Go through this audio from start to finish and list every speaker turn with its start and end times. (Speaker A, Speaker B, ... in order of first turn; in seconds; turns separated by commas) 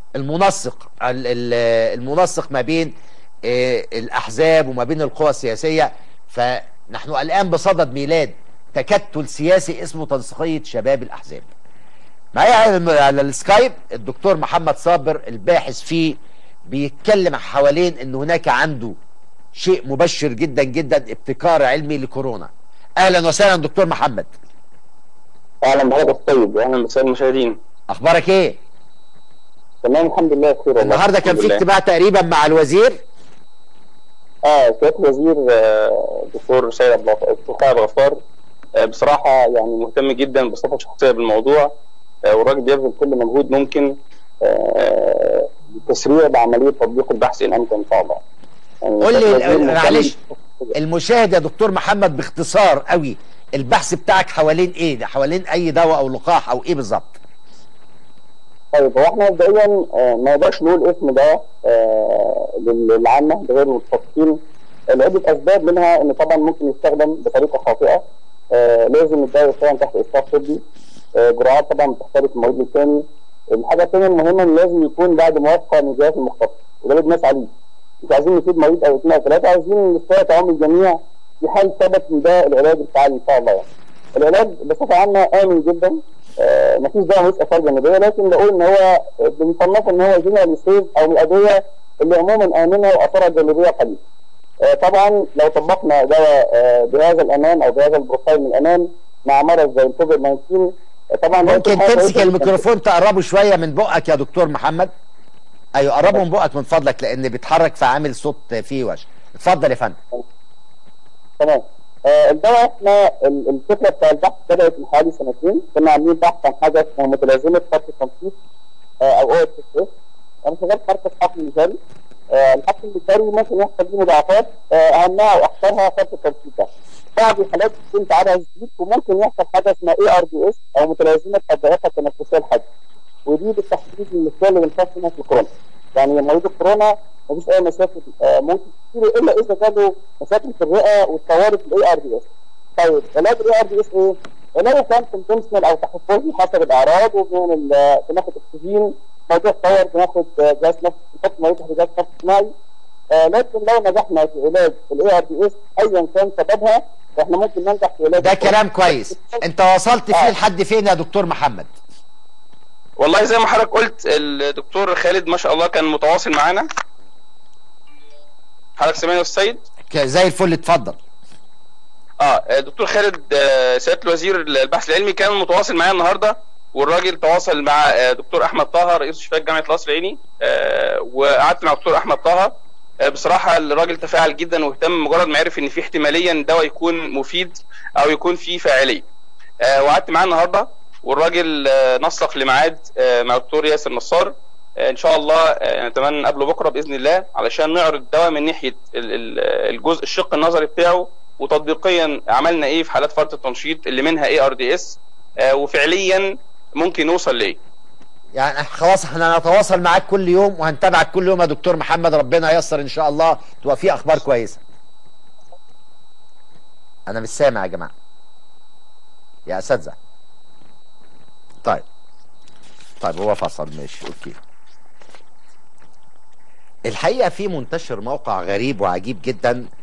Speaker A: 0.1-2.9, Speaker A: 3.5-11.5, Speaker A: 12.3-19.0, Speaker A: 19.6-24.3, Speaker B: 25.6-27.6, Speaker A: 27.9-28.6, Speaker B: 29.8-31.6, Speaker A: 30.8-33.0, Speaker B: 34.5-38.2, Speaker B: 38.8-41.7, Speaker B: 42.3-48.2, Speaker B: 48.8-50.7, Speaker A: 49.0-50.1, Speaker A: 50.7-57.2, Speaker B: 58.7-64.4, Speaker B: 64.9-70.6, Speaker B: 71.2-77.5, Speaker B: 78.0-94.0, Speaker B: 94.6-102.6, Speaker A: 101.5-104.9, Speaker A: 105.8-110.0, Speaker B: 111.4-118.3, Speaker B: 119.0-119.9, Speaker B: 120.4-121.8, Speaker B: 122.3-132.7, Speaker B: 133.3-152.5, Speaker B: 153.1-159.4, Speaker A: 158.2-161.7, Speaker C: 163.0-166.7, Speaker C: 168.8-169.6, Speaker A: 169.9-171.0, Speaker C: 172.2-189.0, Speaker C: 189.6-206.2, Speaker C: 206.8-207.6, Speaker A: 208.4-214.6, Speaker A: 217.1-217.9, Speaker A: 219.5-220.0, Speaker A: 223.0-224.4, Speaker A: 226.9-229.7